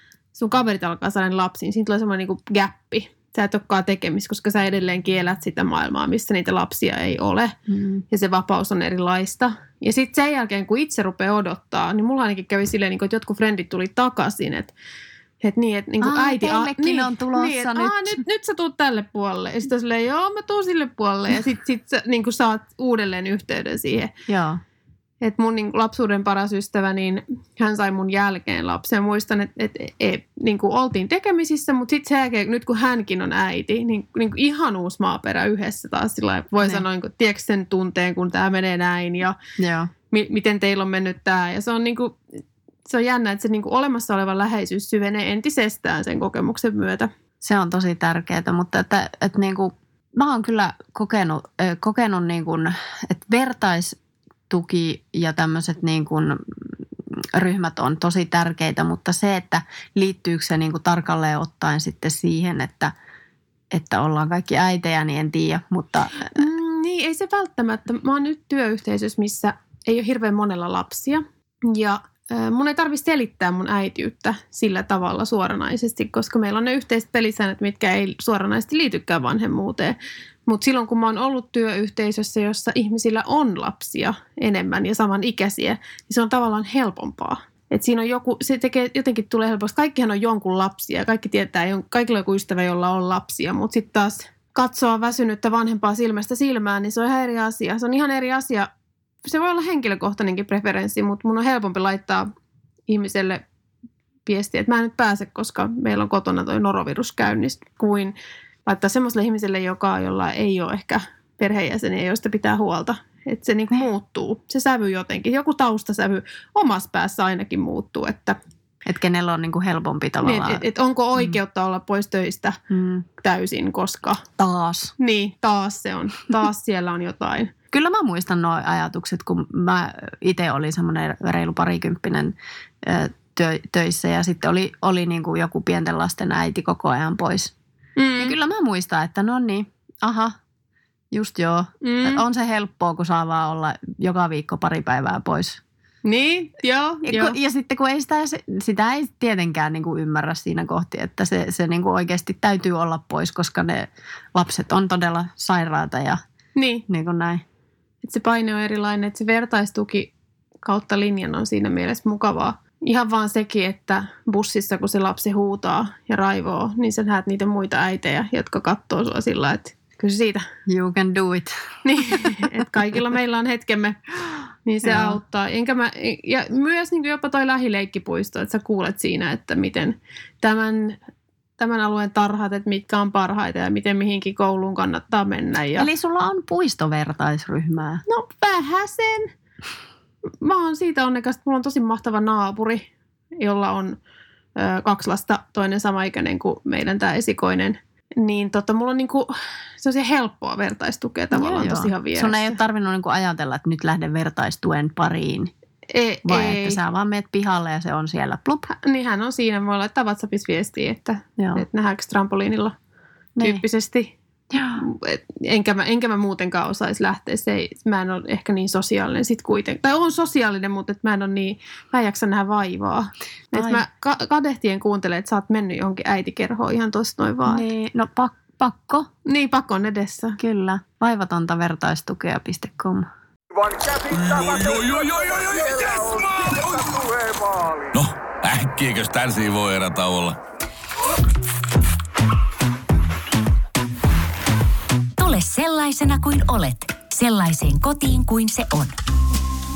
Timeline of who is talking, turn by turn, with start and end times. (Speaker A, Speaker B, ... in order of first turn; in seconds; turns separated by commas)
Speaker A: 0.3-7.5, Speaker B: 7.7-8.0, Speaker A: 8.1-14.7, Speaker A: 15.4-24.1, Speaker B: 16.0-18.2, Speaker B: 24.3-24.6, Speaker A: 25.2-39.4, Speaker B: 39.6-39.9, Speaker A: 40.1-42.2, Speaker A: 42.9-47.1, Speaker B: 47.4-54.0, Speaker B: 54.5-62.9, Speaker B: 63.7-66.3, Speaker A: 66.3-98.7, Speaker A: 99.2-102.3, Speaker A: 102.9-103.4, Speaker A: 104.2-108.1, Speaker A: 108.7-118.4, Speaker B: 118.8-120.6, Speaker A: 120.2-122.6, Speaker B: 122.7-123.0, Speaker A: 123.2-124.2, Speaker B: 124.4-124.9, Speaker A: 125.0-127.5, Speaker B: 127.7-137.5, Speaker A: 138.0-138.3, Speaker B: 138.2-140.4, Speaker B: 141.1-145.6, Speaker A: 141.8-142.2, Speaker A: 146.0-147.4, Speaker B: 147.0-156.2, Speaker A: 156.6-156.8, Speaker B: 156.9-157.4, Speaker A: 158.0-170.4, Speaker B: 170.7-171.5, Speaker A: 171.8-174.0, Speaker B: 172.1-172.5, Speaker A: 174.6-181.0, Speaker B: 174.8-175.2, Speaker A: 181.6-185.9, Speaker B: 185.8-188.0, Speaker A: 188.1-189.3, Speaker A: 190.4-194.0, Speaker A: 194.6-202.6, Speaker B: 201.3-205.5, Speaker A: 205.9-206.8, Speaker B: 206.2-208.7, Speaker A: 208.7-212.8, Speaker B: 211.4-211.6, Speaker B: 213.4-213.6, Speaker A: 213.4-214.1, Speaker B: 214.5-214.8, Speaker A: 214.8-227.7, Speaker B: 223.5-223.8, Speaker B: 227.4-229.1, Speaker A: 229.2-230.4, Speaker B: 230.4-233.1, Speaker C: 233.5-238.0, Speaker D: 234.1-236.8, Speaker D: 237.9-240.4, Speaker E: 245.2-248.9